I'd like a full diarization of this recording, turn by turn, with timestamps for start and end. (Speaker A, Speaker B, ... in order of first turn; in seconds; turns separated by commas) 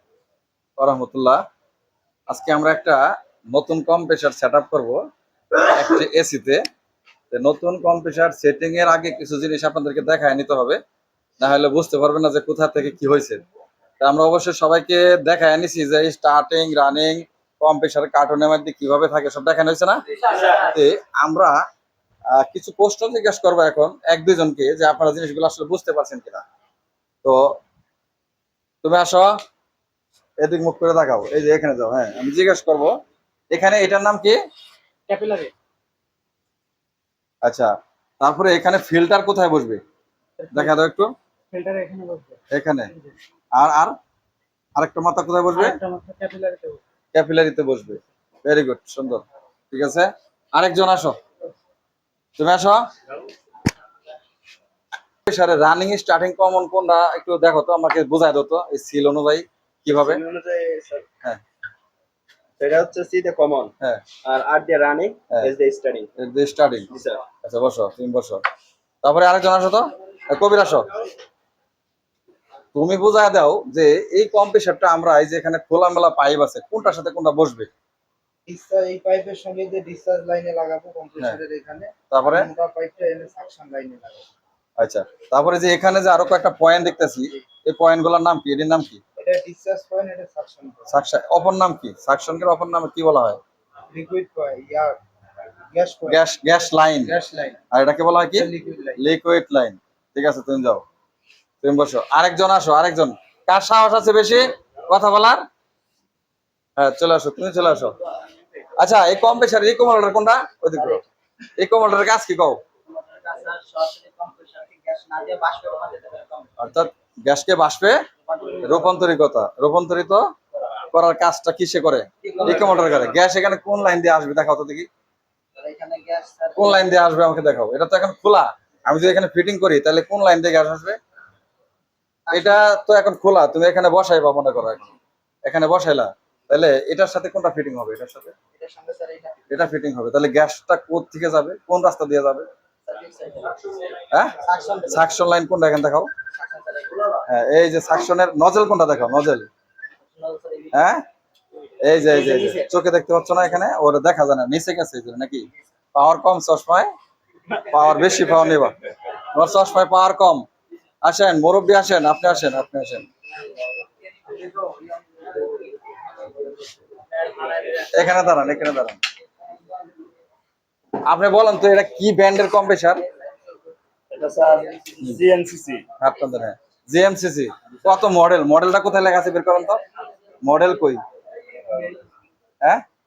Speaker A: 0.8-1.4, Speaker A: 2.3-5.0, Speaker A: 5.6-6.6, Speaker A: 7.3-10.8, Speaker A: 11.4-13.4, Speaker A: 14.0-21.6, Speaker A: 22.3-26.4, Speaker A: 27.2-27.6, Speaker A: 28.8-29.4, Speaker A: 30.4-32.9, Speaker A: 33.5-34.4, Speaker B: 35.1-35.5, Speaker A: 37.4-39.8, Speaker A: 40.5-41.1, Speaker B: 41.5-42.3, Speaker A: 42.5-42.9, Speaker A: 43.6-43.9, Speaker A: 44.8-45.8, Speaker B: 45.7-46.8, Speaker A: 47.1-51.2, Speaker A: 52.4-52.8, Speaker A: 55.3-60.2, Speaker C: 60.0-61.0, Speaker C: 62.6-63.7, Speaker C: 64.2-66.1, Speaker A: 66.2-66.9, Speaker C: 66.9-67.2, Speaker A: 67.4-68.4, Speaker A: 69.0-70.9, Speaker A: 72.8-77.7, Speaker D: 78.5-84.3, Speaker A: 82.1-82.5, Speaker A: 84.8-89.0, Speaker D: 89.2-90.8, Speaker A: 90.9-93.4, Speaker D: 93.9-94.9, Speaker D: 95.7-96.2, Speaker A: 96.1-97.1, Speaker D: 97.0-97.6, Speaker A: 97.7-100.8, Speaker D: 98.3-99.0, Speaker A: 101.6-105.4, Speaker A: 106.8-108.0, Speaker A: 108.8-111.0, Speaker A: 111.6-112.6, Speaker D: 112.9-116.5, Speaker A: 116.6-118.0, Speaker D: 118.3-118.9, Speaker A: 118.6-120.2, Speaker A: 120.9-124.9, Speaker D: 122.3-123.0, Speaker D: 125.6-126.9, Speaker A: 126.6-131.0, Speaker D: 132.3-132.6, Speaker A: 132.3-134.9, Speaker A: 135.5-138.3, Speaker D: 138.6-139.4, Speaker A: 139.5-142.5, Speaker D: 142.9-143.8, Speaker A: 144.1-146.1, Speaker D: 144.4-145.1, Speaker D: 146.3-147.2, Speaker A: 147.3-149.5, Speaker D: 150.2-150.7, Speaker A: 150.7-151.0, Speaker A: 151.8-156.9, Speaker A: 157.6-160.4, Speaker A: 161.0-163.1, Speaker A: 167.7-169.0, Speaker A: 171.1-173.1, Speaker C: 174.1-175.8, Speaker A: 176.0-179.8, Speaker A: 180.4-181.0